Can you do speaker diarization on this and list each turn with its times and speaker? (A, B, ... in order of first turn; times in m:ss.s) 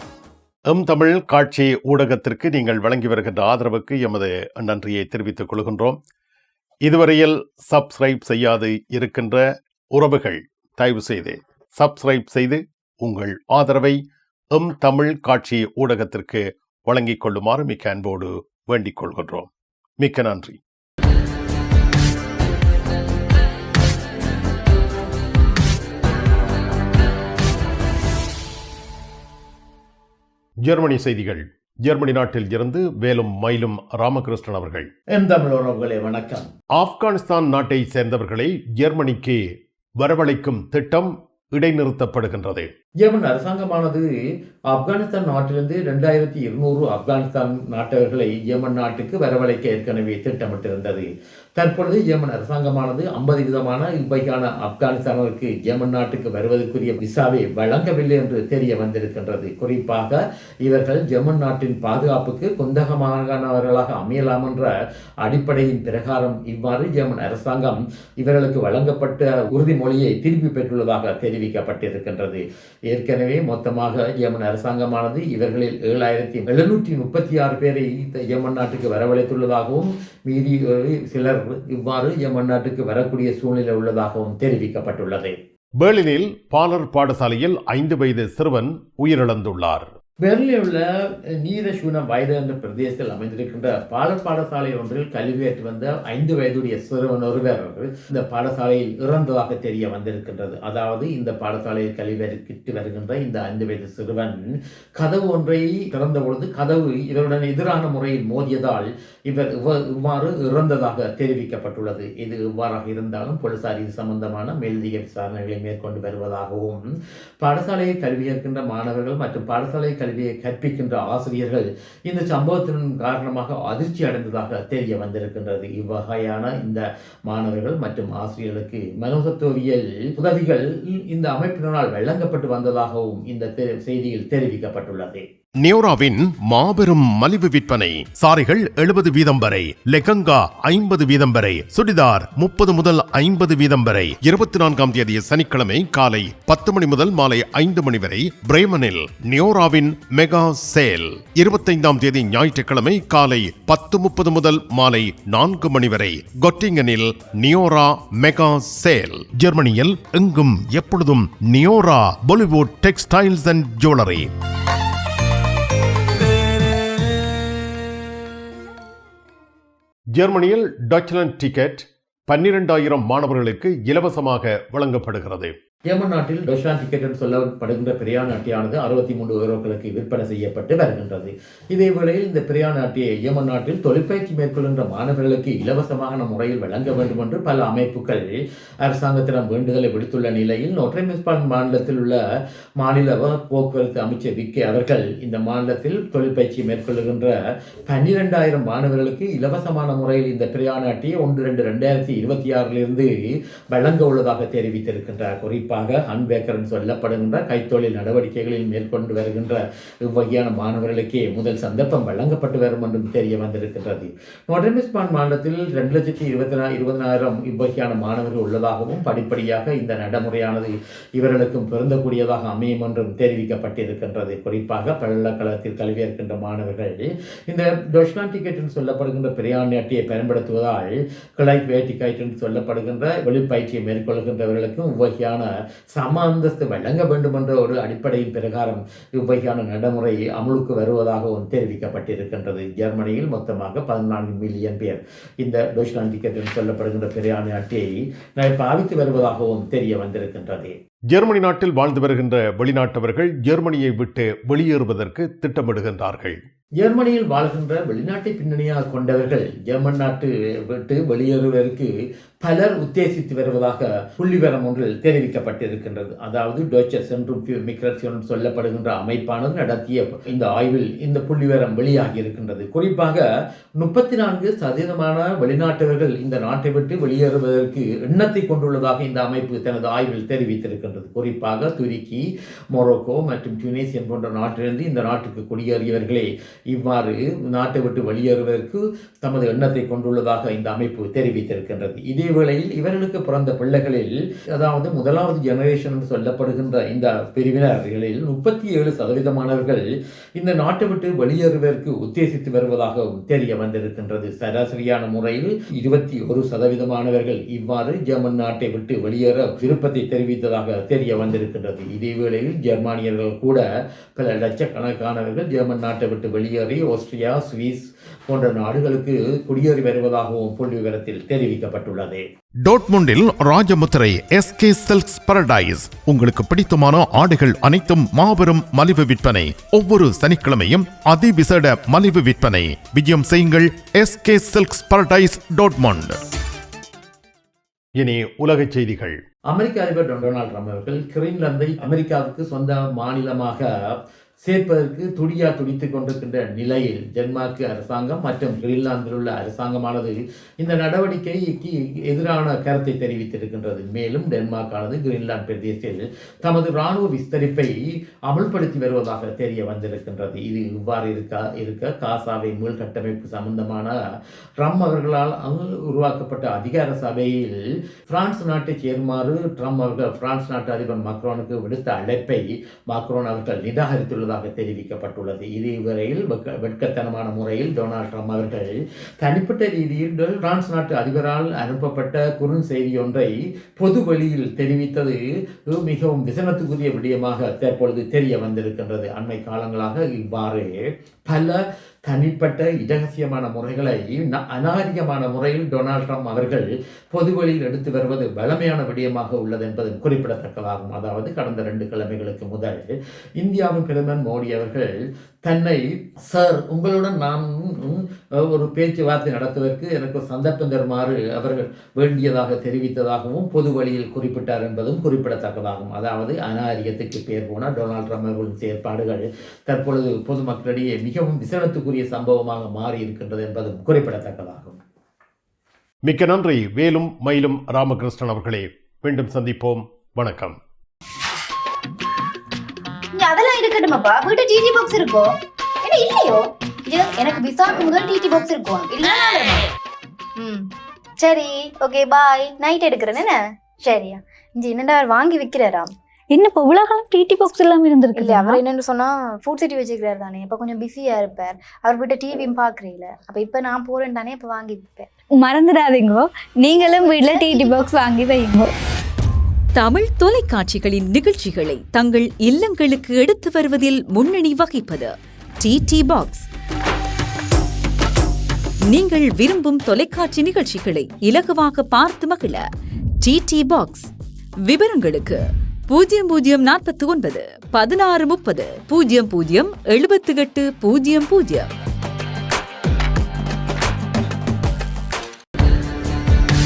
0:00.7-0:06.0 A
0:06.8-0:09.4 A
0:09.9-0:14.0 A
0:14.5-0:20.6 A
0:30.6-0:34.9 A
0:35.1-0:36.5 B
0:36.8-0:39.4 A
0:40.0-0:42.7 A
0:43.0-0:44.1 B
0:44.7-0:51.0 B
0:51.6-1:04.7 B
1:05.2-1:25.3 B
1:25.8-1:29.9 A
1:30.2-1:44.4 B
1:45.0-1:56.8 B
1:57.4-2:15.2 B
2:15.6-2:44.3 A
2:50.2-2:55.5 A
2:55.9-3:08.2 B
3:08.8-3:12.2 B
3:12.8-3:17.3 B
3:17.9-3:23.1 B
3:23.7-4:10.7 B
4:11.1-4:16.4 A
4:16.8-4:21.9 B
4:22.4-4:33.2 B
4:33.8-4:59.8 B
5:00.4-5:13.6 B
5:14.2-5:22.2 B
5:22.6-5:36.2 A
5:38.0-5:39.2 A
5:39.5-5:43.7 B
5:44.4-5:57.7 B
5:58.3-6:03.9 B
6:04.6-6:07.6 B
6:08.1-6:25.2 B
6:25.7-6:30.7 B
6:31.3-6:44.9 B
6:45.4-7:04.8 B
7:06.0-7:10.6 A
7:13.1-7:19.7 C
7:20.4-7:25.9 C
7:26.3-7:28.6 D
7:28.2-7:35.1 C
7:35.3-7:38.7 D
7:36.7-7:37.9 C
7:39.8-7:46.4 E
7:48.9-7:52.6 E
7:53.2-7:54.1 E
7:54.6-8:01.7 E